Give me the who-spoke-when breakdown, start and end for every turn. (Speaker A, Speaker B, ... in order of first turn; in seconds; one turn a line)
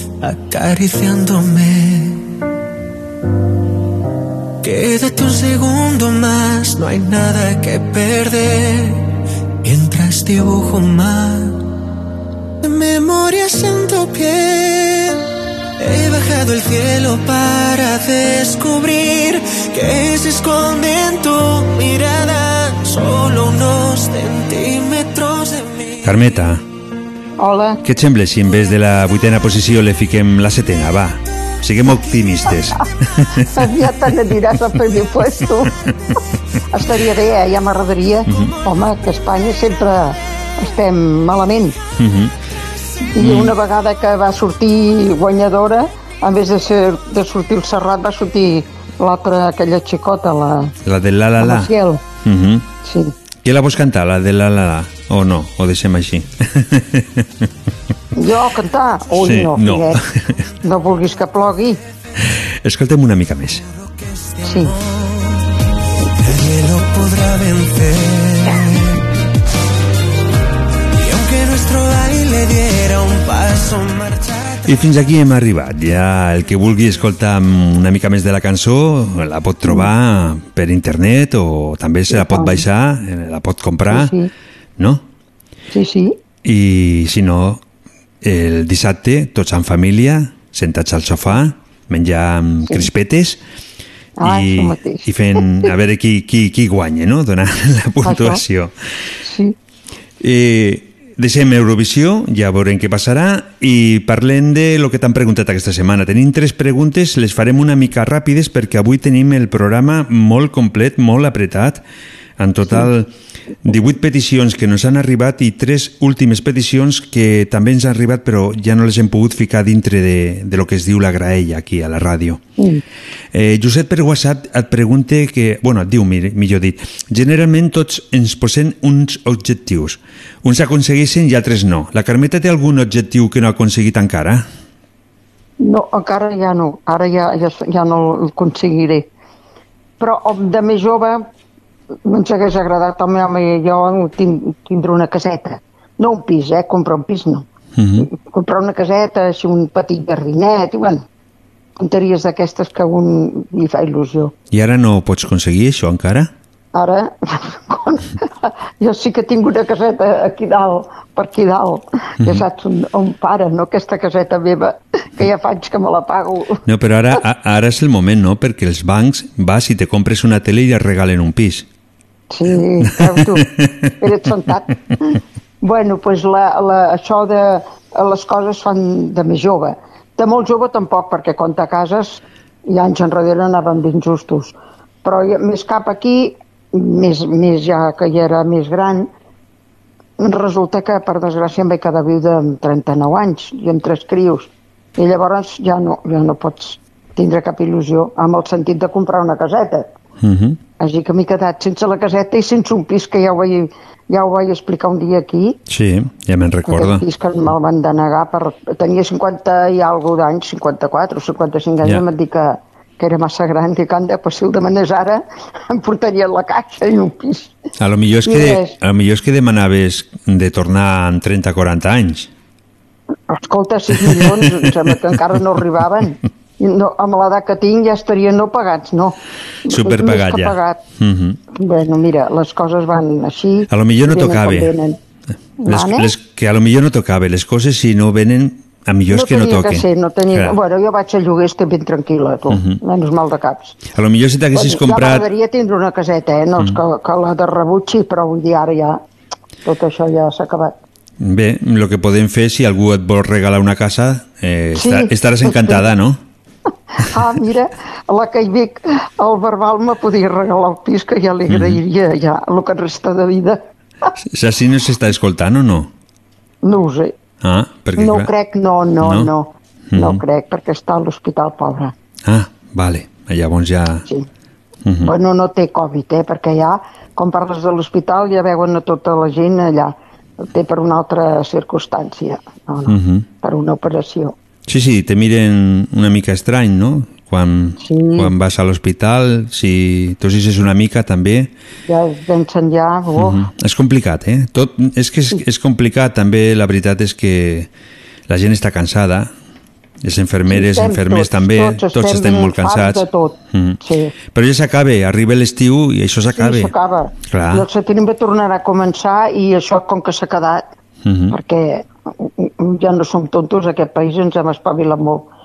Speaker A: 0.2-2.2
Speaker A: 4.6-9.1
Speaker A: 9.6-11.6
Speaker A: 12.6-15.2
Speaker A: 15.8-25.9
Speaker B: 26.0-26.6
Speaker C: 27.4-27.8
Speaker B: 27.8-33.5
Speaker C: 33.5-35.7
Speaker C: 36.7-41.8
Speaker B: 38.3-38.5
Speaker B: 42.0-42.3
Speaker C: 43.2-50.7
Speaker B: 43.2-43.5
Speaker B: 50.8-51.7
Speaker C: 51.4-52.0
Speaker B: 52.2-52.7
Speaker C: 52.8-53.1
Speaker B: 53.4-57.2
Speaker C: 58.1-60.0
Speaker B: 59.2-60.4
Speaker C: 60.6-61.8
Speaker B: 62.2-63.6
Speaker C: 64.4-64.7
Speaker A: 66.2-69.0
Speaker A: 71.0-74.8
Speaker B: 74.7-84.1
Speaker C: 82.1-82.6
Speaker C: 83.9-84.3
Speaker B: 84.8-85.0
Speaker C: 85.7-86.2
Speaker B: 86.4-87.6
Speaker B: 88.2-93.4
Speaker C: 94.2-95.5
Speaker B: 94.2-98.7
Speaker C: 98.0-98.4
Speaker C: 99.2-99.5
Speaker B: 100.2-111.8
Speaker B: 112.4-113.1
Speaker B: 113.6-122.4
Speaker B: 123.3-134.4
Speaker C: 135.6-139.1
Speaker C: 140.0-141.2
Speaker C: 142.0-147.4
Speaker B: 147.8-148.1
Speaker C: 148.0-151.0
Speaker C: 151.8-154.3
Speaker B: 154.5-156.3
Speaker C: 156.7-166.6
Speaker B: 166.7-171.7
Speaker C: 172.3-173.4
Speaker B: 173.2-173.7
Speaker C: 174.0-189.1
Speaker C: 190.2-199.9
Speaker B: 200.2-200.6
Speaker C: 200.8-205.6
Speaker B: 205.7-207.0
Speaker C: 206.6-217.5
Speaker B: 217.8-222.3
Speaker C: 218.2-218.7
Speaker C: 223.3-230.8
Speaker B: 224.0-224.3
Speaker B: 229.7-231.4
Speaker C: 231.6-235.0
Speaker B: 233.7-234.7
Speaker C: 235.6-236.1
Speaker B: 235.7-240.6
Speaker C: 239.1-243.8
Speaker B: 242.5-242.8
Speaker B: 243.9-245.2
Speaker C: 244.5-249.0
Speaker C: 249.6-250.7
Speaker B: 251.2-256.2
Speaker C: 254.8-255.8
Speaker C: 257.0-263.6
Speaker B: 261.5-261.8
Speaker B: 264.3-265.9
Speaker C: 266.6-267.1
Speaker B: 267.4-268.3
Speaker C: 268.0-271.9
Speaker B: 269.0-269.3
Speaker B: 269.9-270.2
Speaker B: 272.3-274.0
Speaker B: 274.9-275.1
Speaker C: 275.0-284.3
Speaker B: 282.9-283.2
Speaker B: 284.7-291.5
Speaker C: 287.8-288.3
Speaker C: 291.9-293.5
Speaker B: 293.2-297.7
Speaker B: 298.3-299.3
Speaker B: 300.0-303.8
Speaker C: 300.5-304.1
Speaker B: 304.3-306.7
Speaker C: 306.3-310.6
Speaker B: 307.3-307.6
Speaker B: 311.0-311.3
Speaker C: 311.3-315.3